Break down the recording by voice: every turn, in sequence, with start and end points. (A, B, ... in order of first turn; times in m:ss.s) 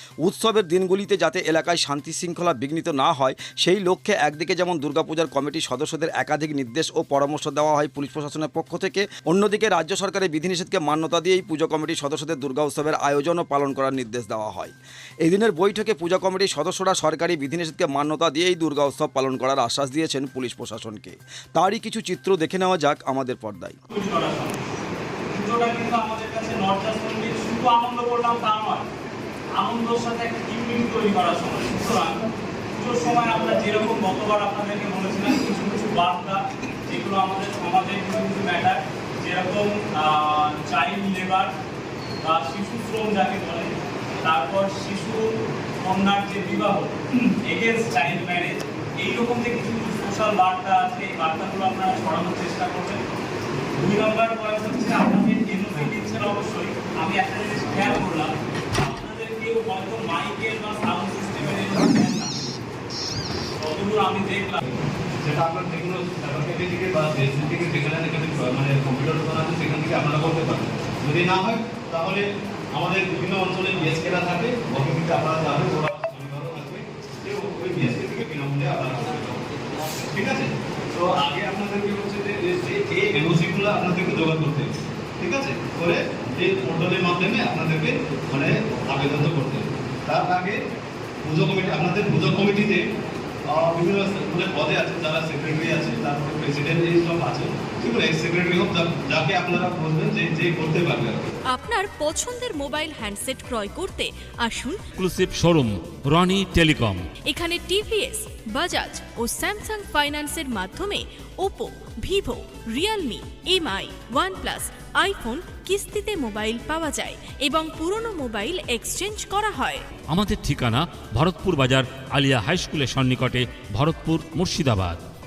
0:00.2-0:23.8 A
0:23.9-0:24.6 B
0:25.3-0:28.8 B
0:29.6-0:32.2 B
0:32.8-0:41.5 B
0:42.2-0:53.0 B
0:53.8-1:02.3 B
1:03.6-1:04.6 B
1:04.7-1:30.6 C
1:31.2-1:32.8 C
1:33.5-1:41.4 C
1:41.5-1:44.8 D
1:45.0-1:47.1 E
1:47.3-1:59.8 D
2:00.1-2:05.0 E